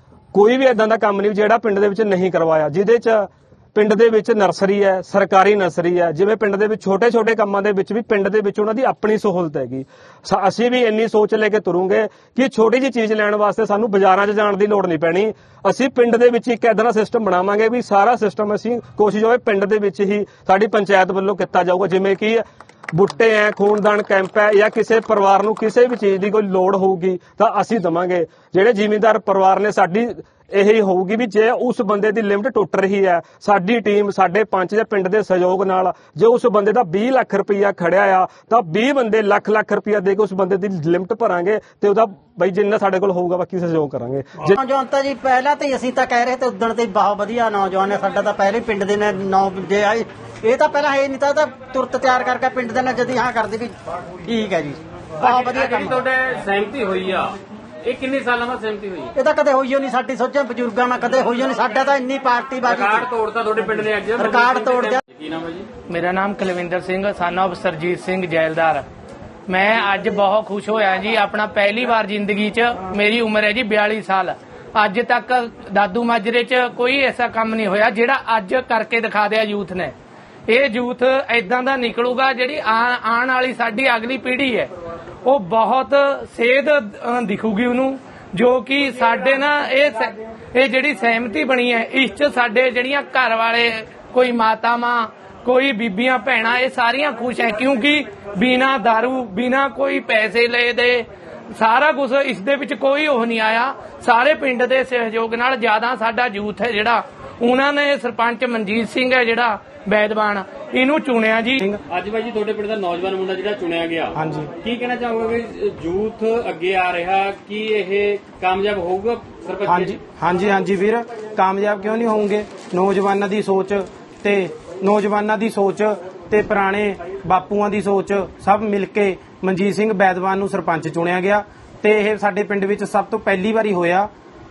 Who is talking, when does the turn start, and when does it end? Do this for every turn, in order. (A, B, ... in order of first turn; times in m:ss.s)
0:00.3-0:44.6 A
0:44.6-0:55.9 B
0:55.2-0:59.1 C
0:59.2-1:03.1 B
1:02.6-1:05.7 C
1:04.2-1:05.0 B
1:05.9-1:08.8 D
1:09.5-1:19.9 D
1:20.5-1:24.7 D
1:25.2-1:51.6 D
1:51.9-2:00.0 C
1:59.7-2:14.0 E